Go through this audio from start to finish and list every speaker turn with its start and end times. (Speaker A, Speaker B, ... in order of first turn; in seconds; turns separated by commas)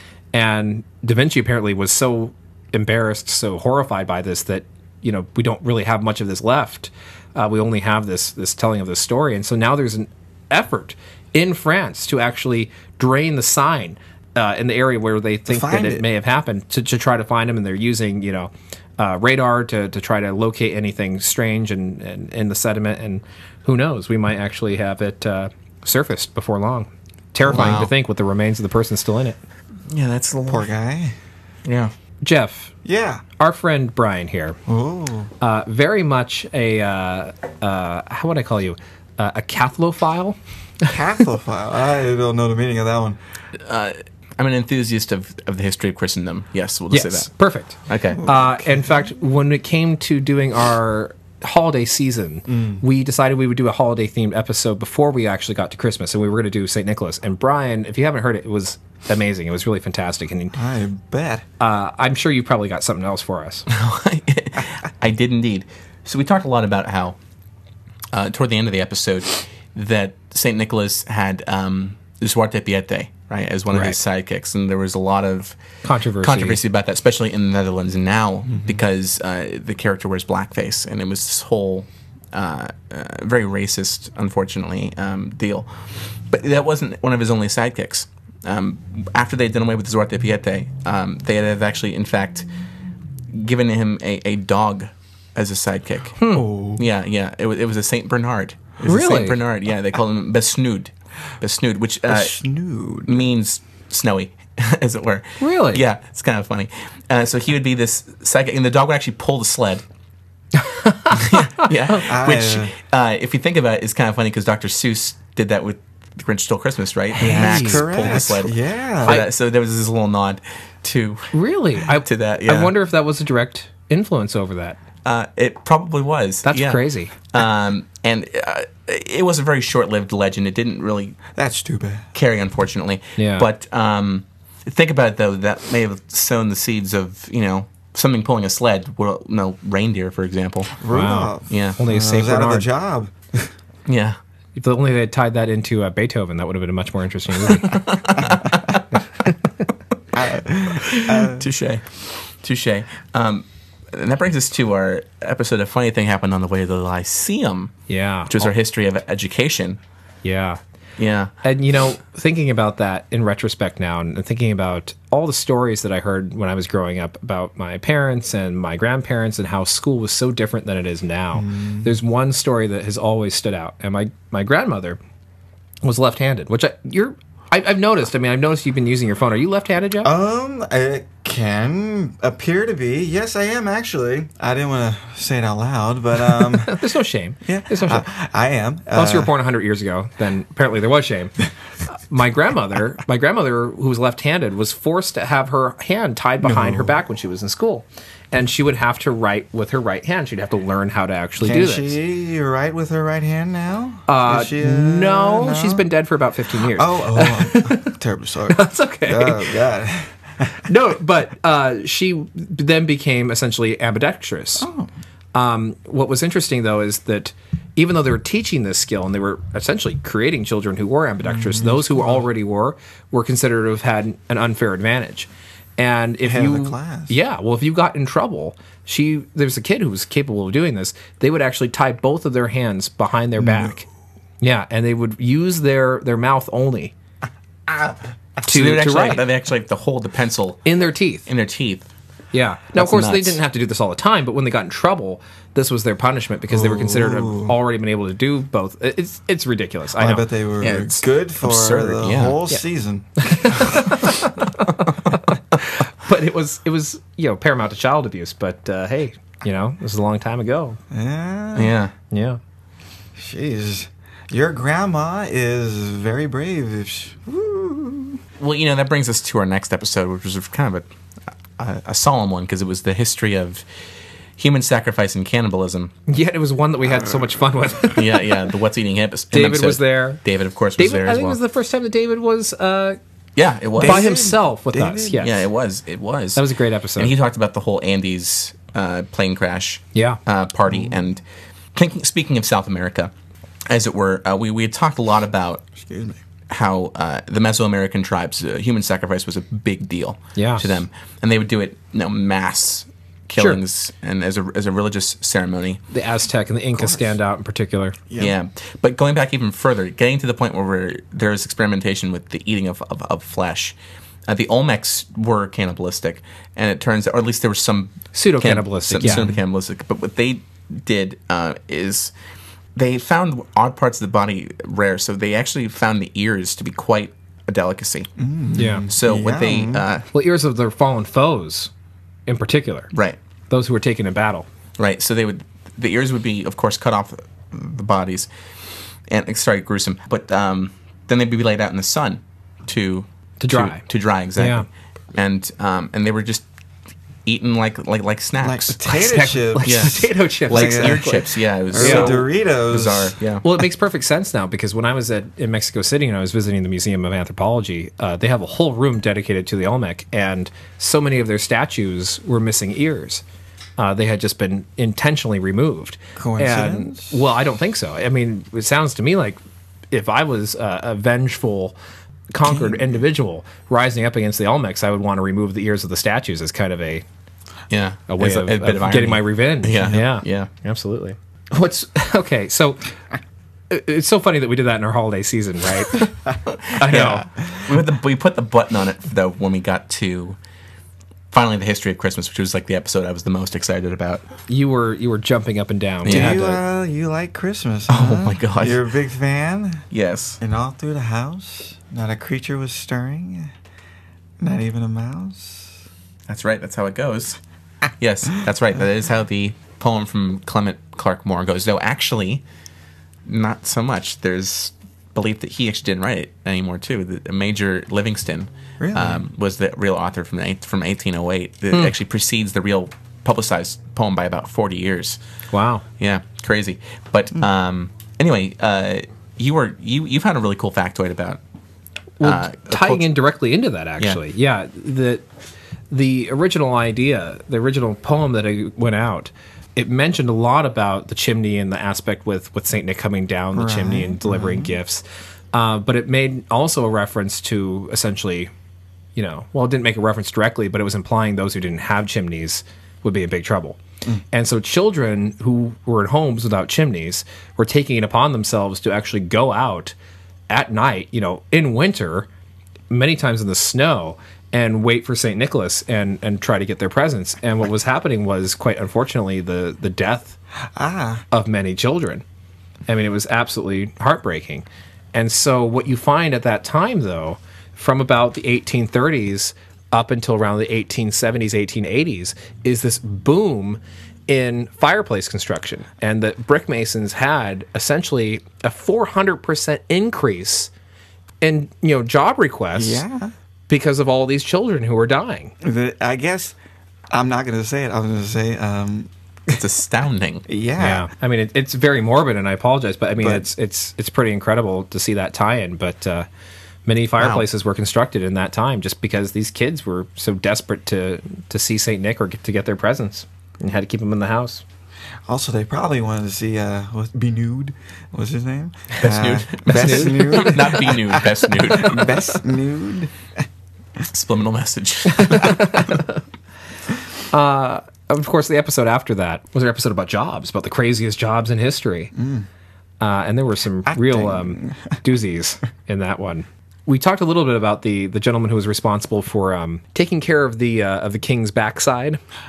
Speaker A: 0.3-29.4, Speaker B: 15.5-16.1, Speaker B: 27.5-27.9, Speaker C: 27.5-27.9, Speaker C: 29.9-30.7, Speaker B: 30.5-31.1, Speaker C: 31.6-31.9, Speaker A: 32.2-32.7, Speaker B: 32.8-33.2, Speaker A: 33.4-34.6, Speaker B: 34.7-35.3, Speaker A: 35.4-40.4, Speaker B: 40.9-43.2, Speaker C: 43.6-47.3, Speaker A: 46.9-60.6, Speaker C: 47.9-48.2, Speaker B: 48.1-49.0, Speaker B: 52.5-52.8, Speaker B: 60.5-61.4, Speaker A: 61.6-63.7, Speaker C: 63.7-67.2, Speaker C: 68.1-75.6, Speaker A: 73.7-74.0, Speaker A: 75.8-76.6, Speaker C: 76.2-92.5, Speaker C: 93.3-96.2, Speaker A: 96.2-96.5, Speaker B: 96.3-96.8, Speaker C: 96.8-102.4, Speaker A: 98.8-99.4, Speaker B: 102.1-103.3, Speaker C: 103.1-109.8, Speaker A: 105.4-105.8, Speaker A: 110.6-111.7, Speaker C: 111.1-121.3, Speaker B: 112.0-112.7, Speaker A: 117.2-118.3, Speaker B: 117.2-119.2, Speaker A: 121.3-124.8, Speaker C: 121.9-122.7, Speaker C: 125.0-131.2, Speaker A: 126.5-127.1, Speaker B: 131.3-132.1, Speaker C: 132.1-140.8, Speaker A: 133.2-133.5, Speaker B: 140.8-143.5, Speaker A: 140.9-142.7, Speaker C: 141.5-141.8, Speaker C: 143.9-144.2, Speaker A: 144.6-147.9, Speaker C: 147.5-148.8, Speaker B: 150.1-151.4, Speaker C: 150.6-157.7, Speaker A: 157.9-158.5, Speaker C: 158.3-159.8, Speaker A: 160.2-160.6, Speaker C: 161.0-161.3, Speaker A: 161.4-175.0, Speaker B: 171.3-171.9, Speaker A: 175.8-180.1, Speaker B: 180.0-186.8, Speaker A: 186.3-188.1, Speaker B: 187.4-189.3, Speaker A: 188.9-191.4, Speaker A: 191.9-202.0, Speaker B: 196.4-197.0, Speaker B: 201.4-205.8, Speaker A: 204.1-207.9, Speaker B: 206.7-210.6, Speaker A: 208.5-209.6, Speaker A: 210.7-214.7, Speaker B: 214.6-214.9, Speaker A: 215.3-233.8, Speaker B: 221.2-222.2, Speaker B: 226.2-227.2, Speaker B: 233.4-233.7, Speaker A: 234.4-236.9, Speaker C: 237.7-240.7, Speaker A: 238.4-239.2, Speaker A: 240.7-241.3, Speaker C: 241.3-241.9, Speaker A: 242.3-250.3, Speaker C: 242.8-243.4, Speaker B: 246.5-247.6, Speaker B: 250.0-253.8, Speaker C: 250.6-252.4, Speaker A: 253.2-260.8, Speaker B: 260.9-261.8, Speaker C: 261.6-261.9, Speaker A: 262.1-262.4, Speaker B: 263.2-268.2, Speaker C: 268.4-270.9, Speaker C: 271.6-273.6, Speaker C: 274.4-275.9, Speaker A: 276.1-278.2, Speaker C: 277.9-281.4, Speaker A: 279.3-280.2, Speaker A: 280.8-283.0, Speaker C: 283.4-284.1, Speaker B: 283.8-285.3, Speaker A: 283.8-285.4, Speaker C: 285.2-286.4, Speaker A: 286.4-287.1, Speaker C: 287.0-291.2, Speaker A: 289.9-290.2, Speaker C: 291.8-293.1, Speaker C: 293.7-295.6, Speaker B: 295.8-296.2, Speaker C: 296.5-305.8, Speaker A: 300.4-300.8, Speaker A: 305.9-308.0, Speaker B: 306.7-307.2, Speaker C: 308.2-313.8, Speaker C: 314.3-322.1, Speaker A: 318.1-319.3, Speaker B: 319.0-319.4, Speaker C: 322.8-328.1, Speaker B: 328.2-329.9, Speaker A: 328.6-328.9, Speaker C: 328.9-330.1, Speaker A: 330.1-331.7, Speaker A: 332.3-332.9, Speaker A: 333.5-334.5, Speaker C: 334.8-338.3, Speaker C: 339.1-346.4, Speaker A: 343.4-343.8, Speaker A: 344.4-344.7, Speaker C: 347.3-348.8, Speaker B: 348.4-350.0, Speaker A: 348.9-351.2, Speaker C: 349.6-353.5, Speaker B: 350.5-351.1, Speaker B: 351.7-353.1, Speaker A: 351.8-352.2, Speaker A: 353.4-363.2, Speaker A: 363.8-369.4, Speaker B: 366.2-367.2, Speaker A: 369.9-371.8, Speaker A: 372.3-377.1, Speaker B: 372.5-372.8, Speaker C: 377.7-380.5, Speaker A: 378.1-382.9, Speaker A: 383.7-386.1, Speaker C: 386.4-390.4, Speaker A: 386.8-387.3, Speaker C: 391.3-394.2, Speaker A: 394.5-396.6, Speaker C: 396.1-396.4, Speaker B: 396.1-399.8, Speaker C: 397.9-398.8, Speaker C: 399.9-400.4, Speaker B: 400.4-403.5, Speaker B: 404.4-405.8, Speaker C: 406.3-407.4, Speaker C: 408.0-412.4, Speaker C: 413.3-425.2, Speaker B: 418.8-419.2, Speaker A: 425.5-425.8, Speaker C: 426.0-431.4, Speaker A: 432.2-435.2, Speaker C: 432.2-433.1, Speaker A: 435.9-448.5, Speaker B: 443.5-444.8, Speaker A: 449.2-453.8, Speaker A: 454.3-459.9, Speaker A: 460.5-462.3, Speaker A: 462.9-470.4, Speaker B: 470.8-471.2, Speaker A: 471.3-472.2, Speaker A: 472.9-490.7, Speaker A: 491.4-493.0, Speaker B: 492.8-493.3, Speaker A: 493.7-495.6, Speaker B: 495.6-496.6, Speaker B: 497.1-499.1, Speaker C: 499.5-500.4, Speaker B: 500.5-501.1, Speaker A: 500.8-506.3, Speaker B: 503.2-503.5, Speaker A: 506.9-514.6, Speaker C: 507.2-507.4, Speaker B: 515.3-523.3, Speaker C: 519.0-522.1, Speaker A: 519.6-520.8, Speaker C: 524.1-525.8, Speaker A: 525.1-526.2, Speaker A: 527.3-532.1, Speaker B: 532.1-532.5, Speaker A: 533.0-542.2, Speaker B: 533.9-534.9